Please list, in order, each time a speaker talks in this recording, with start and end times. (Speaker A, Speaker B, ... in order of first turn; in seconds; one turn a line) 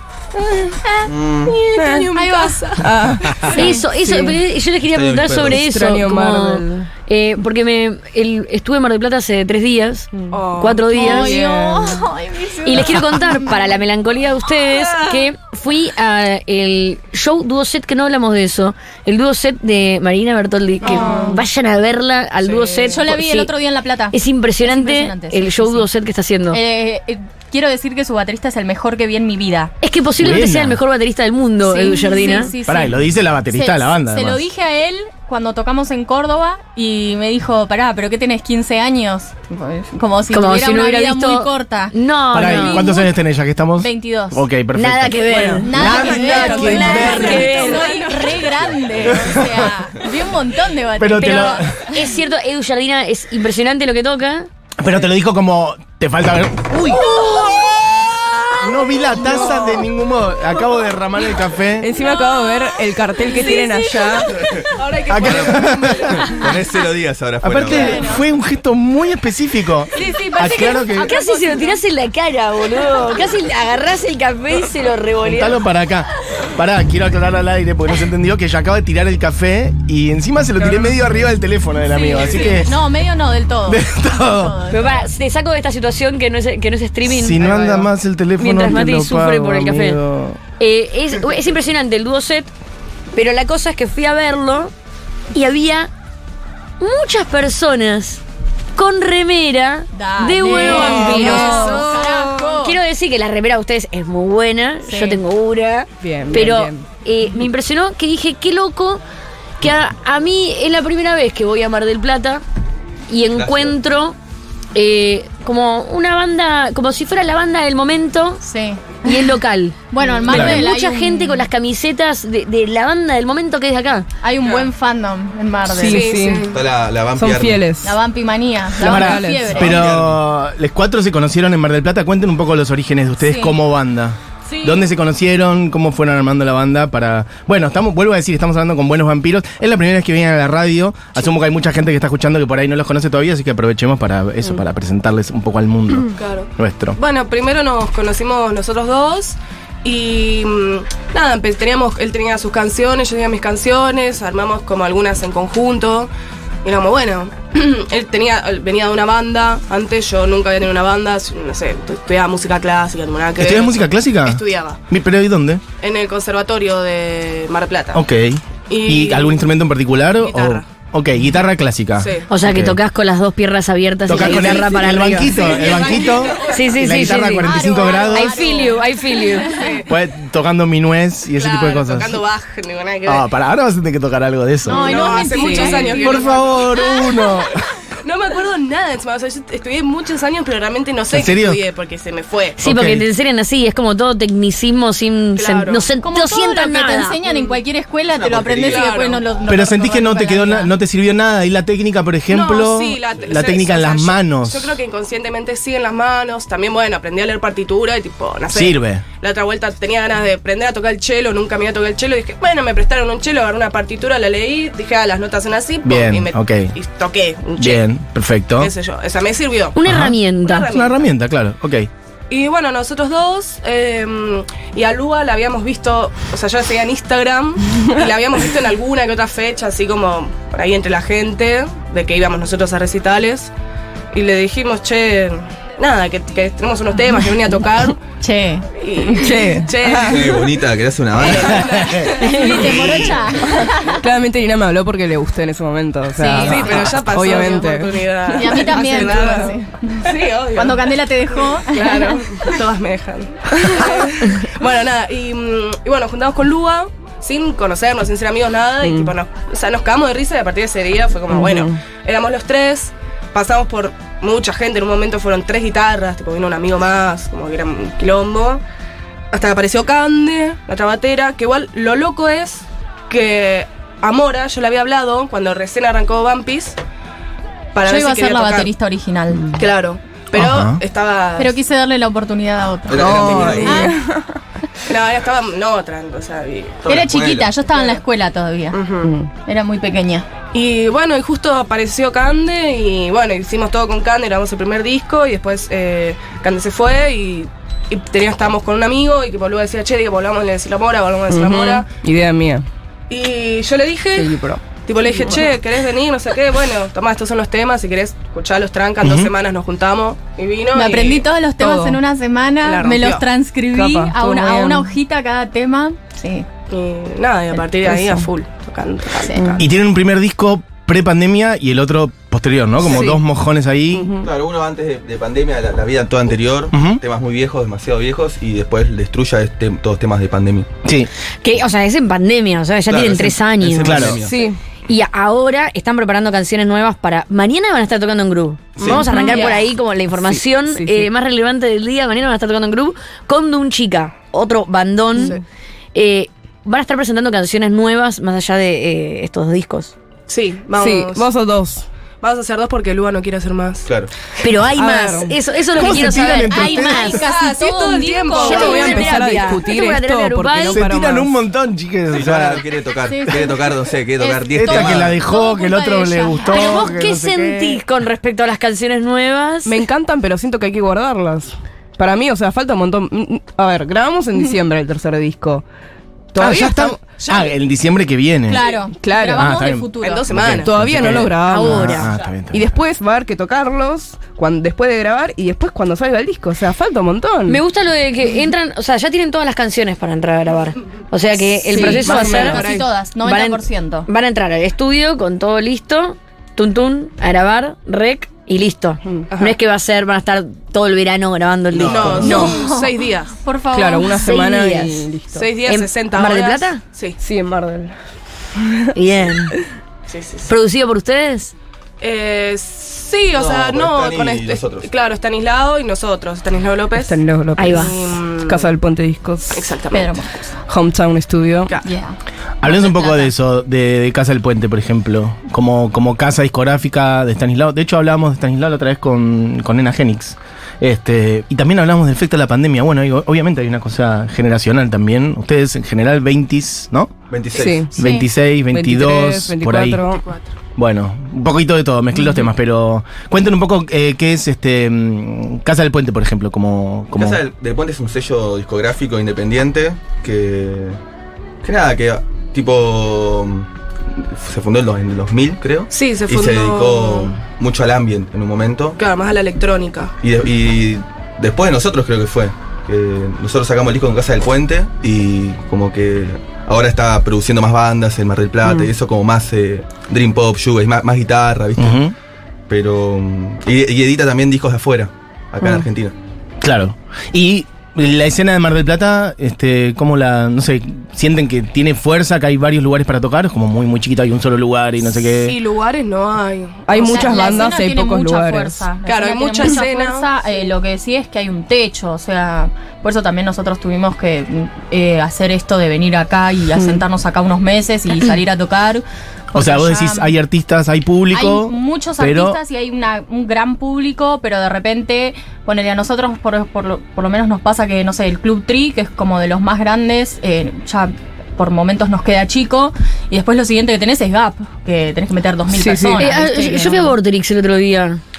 Speaker A: 0.4-0.8
Speaker B: 1.0-1.6
Speaker A: 1.5-3.8
Speaker C: 1.7-2.1
Speaker D: 2.1-2.8
Speaker C: 2.8-4.4
Speaker E: 3.5-11.3
Speaker B: 4.9-5.6
Speaker C: 5.5-6.9
Speaker C: 10.1-12.1
Speaker A: 10.3-11.4
Speaker D: 10.9-13.1
Speaker E: 12.6-23.5
Speaker A: 20.8-21.4
Speaker D: 20.8-21.4
Speaker A: 22.4-22.9
Speaker D: 22.9-25.9
Speaker E: 24.1-26.6
Speaker D: 26.5-29.7
Speaker E: 29.8-32.5
Speaker F: 30.2-30.8
Speaker D: 31.6-43.1
Speaker F: 32.6-34.4
Speaker E: 40.3-43.0
Speaker F: 42.3-47.3
Speaker D: 43.8-44.4
Speaker E: 44.7-47.9
Speaker D: 45.6-52.1
Speaker A: 46.1-48.5
Speaker C: 46.2-47.6
Speaker F: 49.1-49.7
Speaker F: 51.0-51.8
Speaker E: 51.9-54.5
Speaker F: 54.8-57.0
Speaker F: 58.6-61.9
Speaker A: 59.1-59.8
Speaker D: 59.2-59.5
Speaker C: 61.8-64.4
Speaker A: 63.3-66.5
Speaker B: 64.3-64.7
Speaker F: 65.1-66.3
Speaker B: 65.2-68.1
Speaker F: 67.4-71.1
Speaker D: 67.6-68.2
Speaker C: 70.1-71.6
Speaker E: 70.3-75.7
Speaker F: 75.2-82.8
Speaker D: 81.8-85.1
Speaker B: 82.1-82.5
Speaker F: 83.7-84.6
Speaker E: 84.7-87.7
Speaker F: 87.0-90.4
Speaker E: 88.4-90.0
Speaker E: 90.6-92.5
Speaker E: 93.1-94.7
Speaker E: 95.3-95.9
Speaker E: 96.8-98.2
Speaker E: 98.7-101.8
Speaker D: 99.9-102.8
Speaker C: 100.4-102.5
Speaker A: 100.5-102.1
Speaker E: 102.5-109.0
Speaker D: 104.8-105.2
Speaker C: 106.0-106.8
Speaker E: 109.6-112.4
Speaker E: 113.1-114.2
Speaker B: 113.3-113.8
Speaker E: 114.7-118.4
Speaker D: 118.4-119.3
Speaker E: 119.0-124.1
Speaker D: 119.9-121.5
Speaker F: 120.3-120.7
Speaker D: 124.2-126.1
Speaker C: 125.6-126.5
Speaker A: 125.7-126.6
Speaker B: 126.5-127.7
Speaker C: 127.2-128.0
Speaker D: 127.8-129.8
Speaker C: 128.8-129.6
Speaker F: 128.8-147.0
Speaker B: 129.5-130.2
Speaker D: 133.2-133.5
Speaker A: 134.5-134.8
Speaker A: 146.2-156.1
Speaker A: 156.6-164.8
Speaker F: 163.3-165.6
Speaker A: 165.8-168.0
Speaker F: 167.9-172.8
Speaker A: 168.7-169.5
Speaker A: 170.2-170.7
Speaker A: 172.0-172.3
Speaker E: 172.3-175.6
Speaker F: 174.1-178.5
Speaker A: 175.0-177.2
Speaker D: 175.6-176.4
Speaker E: 176.4-179.7
Speaker D: 177.4-179.8
Speaker A: 179.3-179.9
Speaker F: 179.9-182.2
Speaker A: 181.3-183.3
Speaker F: 183.1-185.0
Speaker D: 184.7-186.8
Speaker A: 184.7-187.2
Speaker C: 184.9-186.0
Speaker F: 186.0-187.6
Speaker A: 188.0-192.6
Speaker F: 191.1-191.6
Speaker E: 192.6-197.2
Speaker F: 192.6-193.1
Speaker A: 195.3-195.9
Speaker D: 196.0-200.7
Speaker B: 198.1-198.9
Speaker A: 198.6-199.2
Speaker F: 199.5-204.8
Speaker A: 202.3-217.8
Speaker F: 208.5-209.0
Speaker F: 215.8-216.7
Speaker F: 217.6-218.7
Speaker A: 218.6-219.8
Speaker E: 219.7-220.7
Speaker F: 219.8-221.9
Speaker A: 220.4-221.1
Speaker A: 222.3-233.5
Speaker A: 234.1-238.0
Speaker D: 238.2-239.4
Speaker A: 238.8-240.5
Speaker C: 239.2-240.3
Speaker B: 240.0-243.6
Speaker A: 241.2-242.8
Speaker F: 241.5-242.1
Speaker D: 242.1-244.0
Speaker C: 243.7-249.5
Speaker D: 246.2-247.6
Speaker A: 246.3-268.6
Speaker D: 248.3-252.5
Speaker C: 253.8-254.1
Speaker C: 258.8-259.1
Speaker C: 261.3-261.8
Speaker A: 269.3-276.8
Speaker A: 277.7-278.7
Speaker D: 277.8-279.6
Speaker A: 279.4-281.6
Speaker F: 280.3-280.8
Speaker D: 281.4-284.0
Speaker B: 282.9-283.9
Speaker A: 282.9-283.9
Speaker C: 283.0-284.2
Speaker A: 284.9-286.8
Speaker B: 286.8-287.5
Speaker D: 286.9-288.8
Speaker A: 288.7-289.1
Speaker C: 289.0-289.3
Speaker D: 289.3-290.2
Speaker A: 290.5-301.9
Speaker C: 301.3-302.6
Speaker A: 303.1-311.3
Speaker C: 304.1-305.5
Speaker F: 309.0-309.3
Speaker D: 310.7-316.4
Speaker C: 311.6-312.0
Speaker A: 312.6-313.3
Speaker C: 313.7-314.9
Speaker A: 316.7-319.7
Speaker C: 317.8-318.3
Speaker D: 319.2-319.5
Speaker F: 319.6-324.1
Speaker C: 323.9-324.3
Speaker B: 324.2-330.7
Speaker F: 326.7-327.0
Speaker E: 331.4-334.1
Speaker B: 332.9-334.5
Speaker F: 333.8-334.2
Speaker C: 334.2-334.6
Speaker E: 334.9-345.4
Speaker B: 338.8-339.1
Speaker C: 338.8-341.1
Speaker C: 345.1-345.4
Speaker E: 345.9-349.9
Speaker A: 350.3-351.3
Speaker C: 350.8-351.8
Speaker A: 352.2-353.9
Speaker B: 353.9-354.1
Speaker E: 354.4-357.2
Speaker C: 354.7-355.4
Speaker F: 355.7-357.2
Speaker D: 356.0-359.2
Speaker A: 357.0-359.5
Speaker C: 358.3-361.3
Speaker E: 358.4-360.8
Speaker F: 360.7-362.6
Speaker B: 362.1-365.2
Speaker D: 363.1-366.9
Speaker F: 364.5-367.8
Speaker E: 366.4-369.8
Speaker C: 369.6-375.6
Speaker C: 376.3-377.5
Speaker F: 376.4-378.6
Speaker D: 378.5-380.3
Speaker C: 378.9-379.7
Speaker F: 379.3-382.8
Speaker A: 380.0-380.7
Speaker C: 380.5-387.6
Speaker E: 381.4-382.1
Speaker E: 387.4-392.7
Speaker D: 391.6-394.1
Speaker C: 391.7-392.9
Speaker A: 391.9-392.8
Speaker E: 393.2-402.5
Speaker B: 401.7-402.5
Speaker A: 401.8-403.4
Speaker D: 402.2-404.3
Speaker C: 402.2-402.5
Speaker C: 403.7-405.5
Speaker E: 404.2-405.1
Speaker A: 405.3-407.2
Speaker E: 405.6-406.8
Speaker C: 407.2-407.9
Speaker C: 408.6-408.9
Speaker E: 408.9-409.6
Speaker A: 410.1-410.5
Speaker E: 410.5-411.5
Speaker A: 412.0-418.7
Speaker B: 413.3-414.9
Speaker C: 417.0-419.7
Speaker E: 417.6-417.9
Speaker A: 419.5-420.2
Speaker D: 419.9-420.6
Speaker C: 420.7-421.7
Speaker D: 421.8-423.3
Speaker F: 422.6-437.1
Speaker B: 437.3-437.9
Speaker C: 437.5-438.0
Speaker F: 437.9-440.0
Speaker C: 438.7-440.3
Speaker F: 440.8-447.4
Speaker B: 447.1-451.0
Speaker B: 451.6-459.0
Speaker A: 455.9-457.4
Speaker A: 459.0-460.1
Speaker B: 460.2-472.1
Speaker F: 471.8-472.1
Speaker B: 472.7-476.1
Speaker F: 476.6-485.6
Speaker A: 485.1-487.7
Speaker C: 486.9-488.9
Speaker D: 486.9-500.3
Speaker A: 489.0-490.3
Speaker C: 496.7-497.0
Speaker F: 499.5-502.6
Speaker D: 501.3-517.1
Speaker C: 515.7-516.3
Speaker E: 516.2-518.2